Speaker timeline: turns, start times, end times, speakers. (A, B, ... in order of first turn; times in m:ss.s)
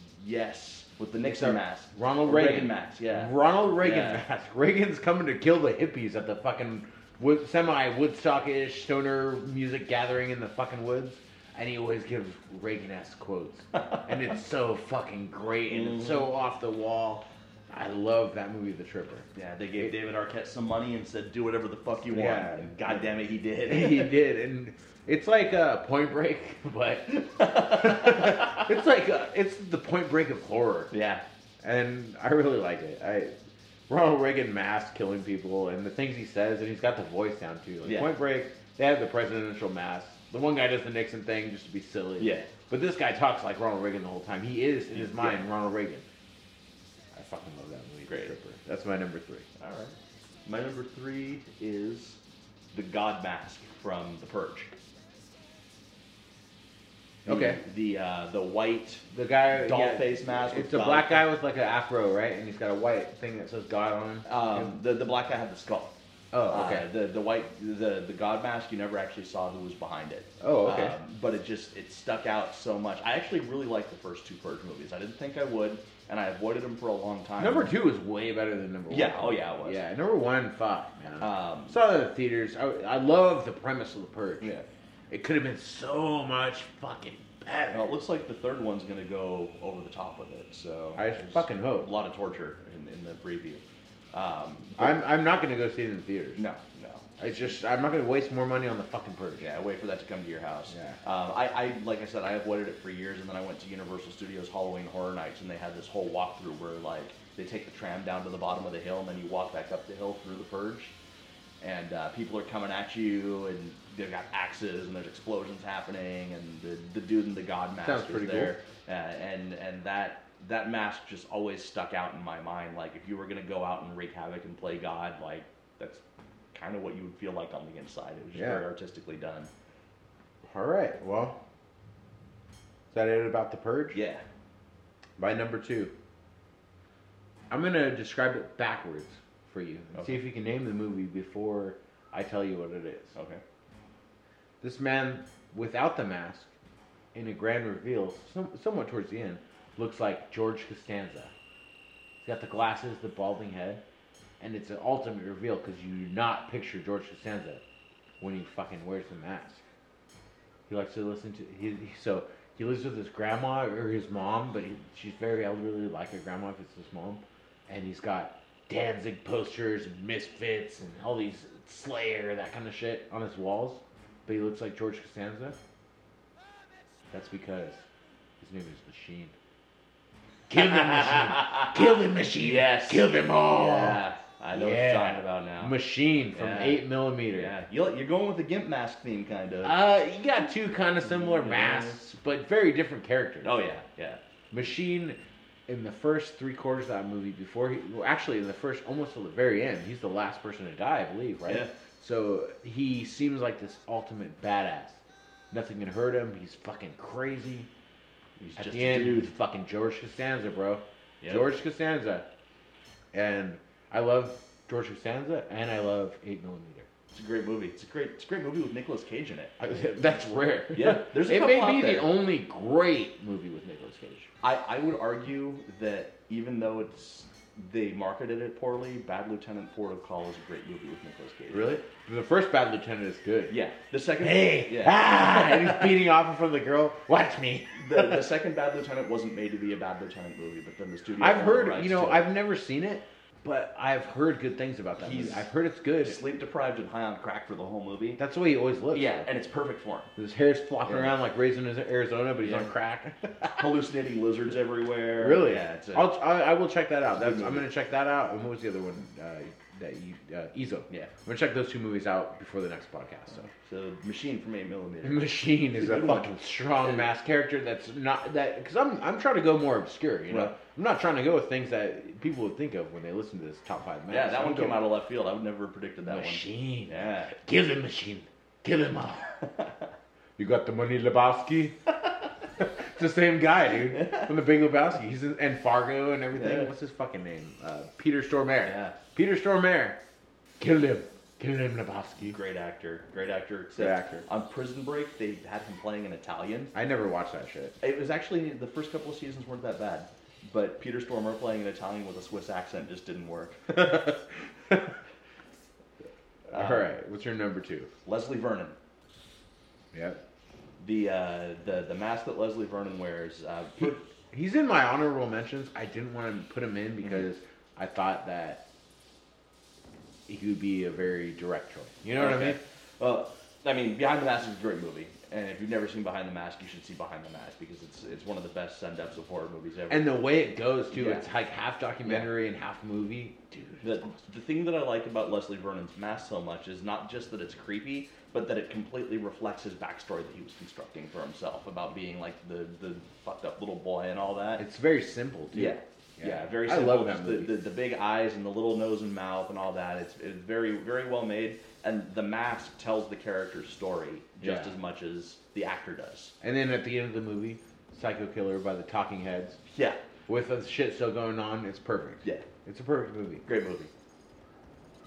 0:00.2-0:04.2 A
0:01.2-0:19.9 B
0:15.7-0:16.3 A
0:19.3-0:24.1 A
0:22.1-0:23.0 B
0:23.6-0:30.9 B
0:27.1-0:28.7 A
0:30.9-0:31.2 A
0:31.6-0:33.4 B
0:33.9-0:46.0 B
0:37.8-0:38.1 A
0:42.2-0:42.5 A
0:44.9-0:45.4 A
0:47.1-0:49.4 B
0:48.1-0:48.3 A
0:49.6-0:52.2 A
0:52.7-0:54.7 A
0:57.2-0:57.6 B
0:57.2-1:01.3 A
0:59.1-1:04.7 B
1:04.2-1:05.9 A
1:06.3-1:06.9 B
1:06.5-1:17.7 A
1:10.4-1:11.0 B
1:17.4-1:24.5 B
1:18.9-1:19.8 A
1:21.2-1:21.8 A
1:24.4-1:24.6 A
1:25.1-1:27.9 B
1:27.7-1:35.0 A
1:31.0-1:31.9 B
1:34.8-1:36.4 B
1:36.4-1:37.2 A
1:37.2-1:39.4 B
1:39.4-1:50.9 A
1:40.7-1:41.0 B
1:51.6-2:06.0 A
1:57.8-1:58.5 B
2:06.5-2:09.5 A
2:08.3-2:08.6 B
2:10.4-2:11.4 B
2:12.9-2:14.0 B
2:13.9-2:14.2 A
2:15.2-2:15.9 B
2:17.5-2:23.2 B
2:19.9-2:20.2 A
2:23.1-2:23.4 A
2:24.6-2:26.5 B
2:27.1-2:31.3 B
2:32.2-2:33.8 B
2:34.4-2:37.6 B
2:38.2-2:39.6 B
2:40.7-2:55.6 B
2:57.1-2:57.8 B
2:58.4-2:59.3 B
3:00.5-3:07.5 B
3:01.0-3:01.8 A
3:02.3-3:05.8 A
3:06.3-3:09.8 A
3:09.6-3:13.6 B
3:11.0-3:12.0 A
3:13.4-3:14.2 A
3:14.5-3:25.0 B
3:21.4-3:21.7 A
3:25.5-3:27.7 B
3:28.4-3:29.3 A
3:28.6-3:32.2 B
3:31.2-3:31.5 A
3:33.1-3:36.9 B
3:37.1-3:39.5 A
3:39.6-3:44.3 B
3:40.7-3:42.1 A
3:44.4-3:51.8 A
3:51.5-3:53.5 B
3:53.5-3:55.9 A
3:54.2-3:58.2 B
3:57.7-4:02.3 A
4:01.2-4:06.2 B
4:05.0-4:05.5 A
4:06.0-4:08.2 A
4:08.2-4:09.3 B
4:08.9-4:10.1 A
4:10.2-4:13.7 B
4:10.8-4:11.1 A
4:12.4-4:12.7 A
4:13.5-4:16.1 A
4:15.2-4:23.5 B
4:17.1-4:17.6 A
4:23.5-4:27.1 A
4:25.0-4:34.9 B
4:30.3-4:30.5 A
4:34.1-4:37.3 A
4:36.1-4:39.4 B
4:40.4-4:41.8 B
4:42.6-4:50.0 B
4:43.9-4:44.3 A
4:46.3-4:46.7 A
4:48.6-4:49.0 A
4:50.6-4:52.4 B
4:52.2-4:56.7 A
4:53.8-4:54.2 B
4:56.7-4:57.8 B
4:57.8-5:03.7 A
5:03.7-5:04.9 B
5:06.5-5:06.9 A
5:06.5-5:07.9 B
5:08.0-5:08.8 A
5:09.9-5:10.2 B
5:10.8-5:14.0 A
5:13.8-5:18.6 B
5:20.3-5:22.6 B
5:22.2-5:30.2 A
5:29.9-5:34.2 B
5:30.9-5:31.2 A
5:32.0-5:32.3 A
5:33.8-5:44.6 A
5:44.6-5:47.5 B
5:45.5-5:56.3 A
5:54.4-5:54.8 B
5:56.4-5:59.6 B
5:59.7-6:00.0 A
6:00.3-6:03.4 B
6:03.4-6:03.9 A